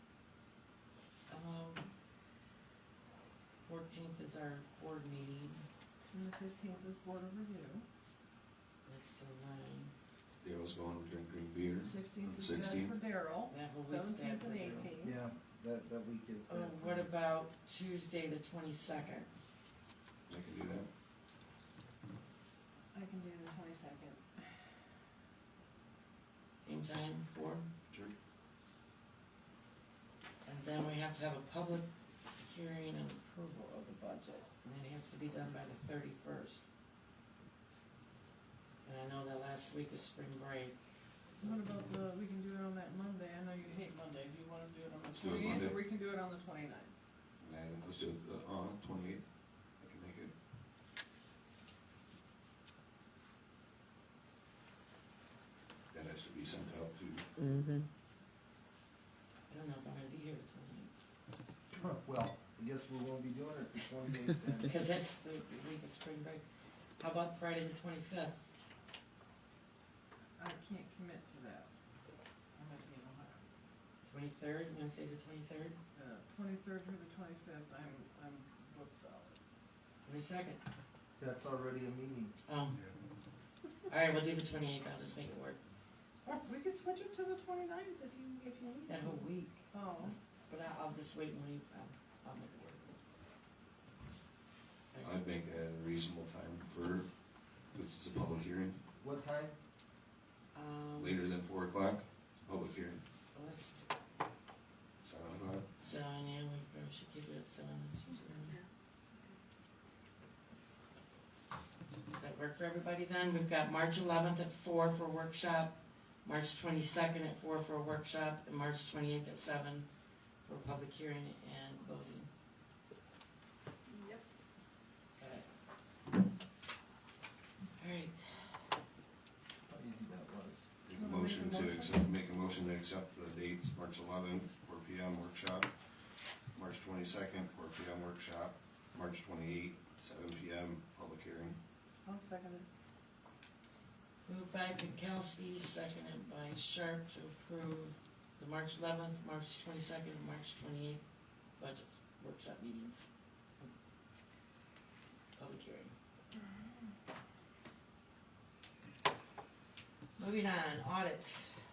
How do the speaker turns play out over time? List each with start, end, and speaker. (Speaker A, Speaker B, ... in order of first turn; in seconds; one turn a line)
Speaker A: 1.3-1.9
Speaker A: 3.6-5.7
Speaker B: 6.1-7.8
Speaker A: 8.8-9.9
Speaker C: 10.4-12.9
Speaker B: 11.8-15.2
Speaker A: 13.5-14.9
Speaker D: 14.7-17.0
Speaker A: 16.5-19.3
Speaker C: 20.3-20.9
Speaker B: 22.9-24.7
Speaker A: 26.6-27.6
Speaker C: 27.9-28.1
Speaker A: 30.4-31.9
Speaker A: 32.4-36.6
Speaker A: 38.8-40.8
Speaker B: 41.4-46.9
Speaker C: 45.1-45.8
Speaker C: 47.4-49.2
Speaker C: 49.8-50.3
Speaker C: 55.9-57.2
Speaker A: 57.4-57.9
Speaker A: 59.5-60.9
Speaker D: 61.8-64.7
Speaker A: 64.6-66.4
Speaker A: 67.0-68.5
Speaker B: 70.4-71.7
Speaker B: 72.5-73.4
Speaker A: 74.0-75.8
Speaker B: 75.9-79.4
Speaker A: 80.0-80.6
Speaker D: 81.2-82.3
Speaker A: 82.5-82.8
Speaker A: 83.9-85.6
Speaker B: 86.2-90.2
Speaker A: 88.9-93.0
Speaker A: 94.9-95.2
Speaker C: 95.0-97.1
Speaker C: 97.7-98.8
Speaker D: 99.0-99.6
Speaker A: 100.5-101.2
Speaker C: 101.0-103.0
Speaker A: 103.3-103.9
Speaker C: 105.0-105.7
Speaker A: 105.8-108.6
Speaker A: 112.1-119.9
Speaker A: 120.4-122.3
Speaker B: 123.9-124.2
Speaker A: 125.2-125.5
Speaker A: 127.8-128.6
Speaker D: 129.7-130.7
Speaker C: 130.8-135.7
Speaker B: 130.9-132.0
Speaker C: 136.5-141.6
Speaker B: 142.1-142.7
Speaker A: 144.2-151.0
Speaker A: 151.6-153.1
Speaker A: 155.3-155.9
Speaker B: 156.3-156.9
Speaker A: 160.2-161.5